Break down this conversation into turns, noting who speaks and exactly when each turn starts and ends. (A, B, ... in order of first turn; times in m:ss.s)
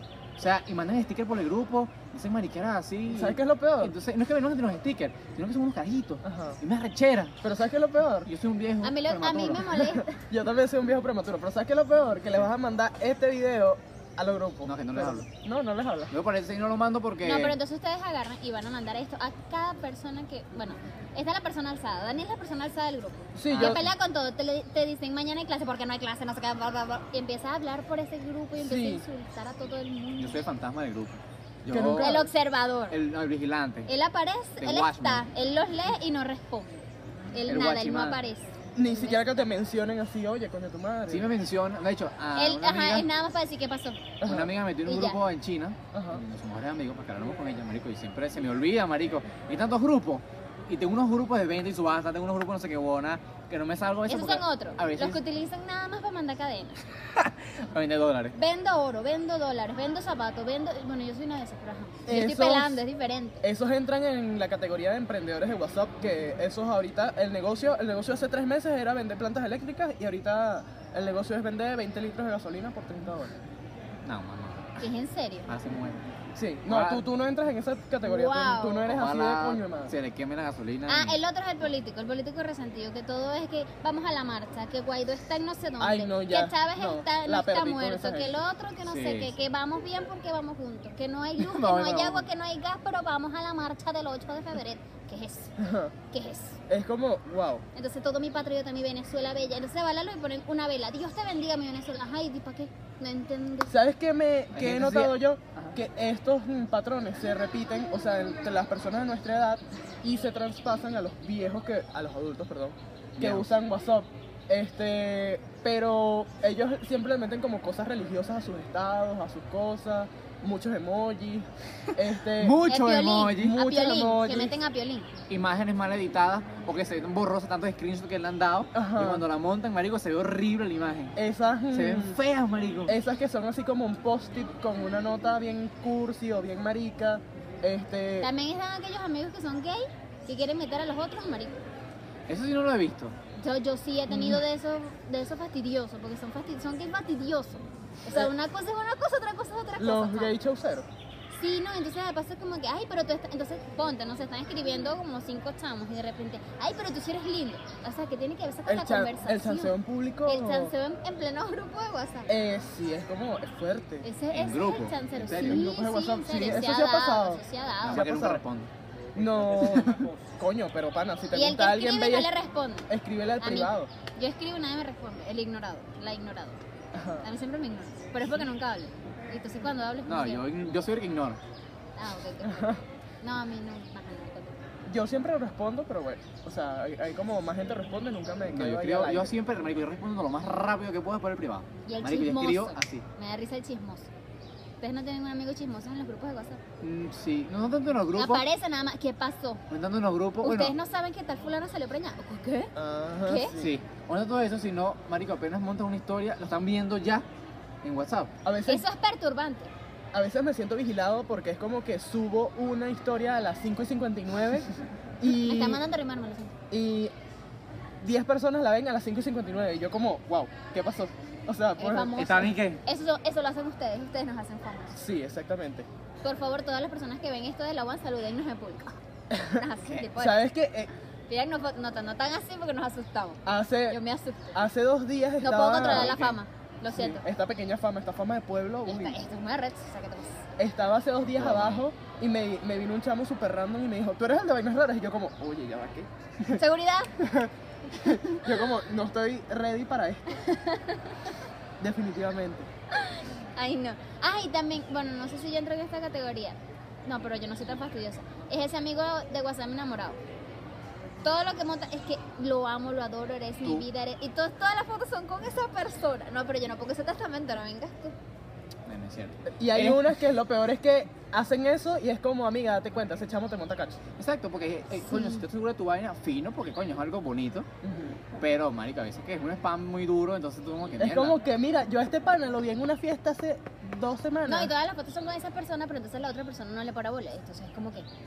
0:00.4-0:07.4 A
0:03.1-0:04.0 B
0:06.2-0:06.6 B
0:07.4-0:08.3 B
0:08.3-0:09.9 A
0:08.8-0:10.2 C
0:10.1-0:16.1 B
0:14.6-0:15.2 A
0:16.1-0:17.6 A
0:17.2-0:30.4 C
0:23.4-0:23.8 B
0:23.5-0:23.9 A
0:28.6-0:29.0 B
0:30.2-0:32.3 A
0:31.7-0:32.3 B
0:32.0-0:33.0 C
0:32.9-0:33.9 A
0:33.9-0:39.3 C
0:34.6-0:35.3 A
0:37.5-0:38.2 A
0:38.8-0:41.3 B
0:41.1-0:43.1 A
0:42.4-0:44.1 C
0:44.2-0:44.6 B
0:44.2-0:55.2 A
0:44.8-0:45.2 C
0:45.9-0:46.2 B
0:54.1-0:56.9 C
0:57.2-0:58.4 A
0:58.4-1:03.4 C
1:02.1-1:02.8 B
1:03.4-1:13.4 B
1:14.0-1:14.8 A
1:14.8-1:15.5 C
1:15.5-1:16.0 A
1:16.4-1:19.9 B
1:16.7-1:17.0 A
1:18.0-1:18.9 C
1:18.9-1:21.2 A
1:20.9-1:35.6 C
1:25.8-1:28.4 B
1:28.8-1:29.3 A
1:31.4-1:32.2 A
1:35.6-1:35.9 B
1:36.1-1:36.6 C
1:36.7-1:37.6 B
1:37.8-1:43.7 C
1:43.7-2:02.6 B
1:44.5-1:45.7 A
1:53.2-1:53.5 A
2:02.3-2:03.6 A
2:02.7-2:05.1 C
2:03.3-2:04.5 B
2:05.3-2:11.2 A
2:08.7-2:09.3 B
2:11.2-2:12.2 B
2:11.7-2:13.0 A
2:12.9-2:18.3 B
2:18.2-2:21.7 C
2:22.3-2:23.2 A
2:23.4-2:30.4 C
2:24.1-2:24.4 B
2:29.8-2:30.9 B
2:31.3-2:42.3 C
2:38.7-2:40.7 B
2:42.3-2:44.1 B
2:44.0-2:48.0 C
2:44.3-2:45.7 A
2:45.2-2:48.4 B
2:47.8-2:48.7 A
2:49.2-2:52.3 B
2:49.6-2:50.0 A
2:51.3-2:56.6 C
2:52.9-2:53.9 B
2:56.9-2:57.3 B
2:57.2-3:00.5 C
3:00.1-3:01.4 A
3:02.0-3:04.6 C
3:02.4-3:02.8 B
3:04.9-3:09.4 B
3:08.5-3:13.0 A
3:11.9-3:14.1 C
3:14.8-3:16.6 C
3:16.8-3:18.5 A
3:18.2-3:19.6 C
3:19.7-3:20.8 A
3:20.4-3:22.7 C
3:22.8-3:23.7 B
3:23.2-3:23.6 C
3:23.6-3:27.2 A
3:27.8-3:28.3 A
3:28.4-3:28.8 B
3:28.7-3:29.7 C
3:30.1-3:35.8 B
3:35.3-3:36.5 C
3:36.7-3:37.1 B
3:38.0-3:42.2 B
3:41.8-3:45.0 C
3:42.2-3:42.8 A
3:45.0-3:45.9 B
3:46.2-3:50.4 C
3:49.3-3:49.6 B
3:50.2-3:50.9 B
3:51.3-3:54.6 C
3:53.4-3:54.0 B
3:54.5-3:56.2 B
3:55.4-3:57.2 C
3:55.8-3:56.4 A
3:56.9-3:59.2 B
3:58.9-4:00.4 C
4:00.6-4:06.6 B
4:01.3-4:01.8 A
4:06.5-4:07.2 C
4:07.2-4:10.4 B
4:08.0-4:08.5 C
4:10.4-4:11.3 C
4:11.8-4:12.7 B
4:12.9-4:20.2 C
4:21.2-4:28.2 C
4:28.9-4:30.1 A
4:29.6-4:34.0 B
4:34.2-4:37.7 A
4:35.1-4:35.4 C
4:37.8-4:38.2 B
4:38.4-4:41.4 A
4:41.0-4:44.7 B
4:44.5-4:48.1 C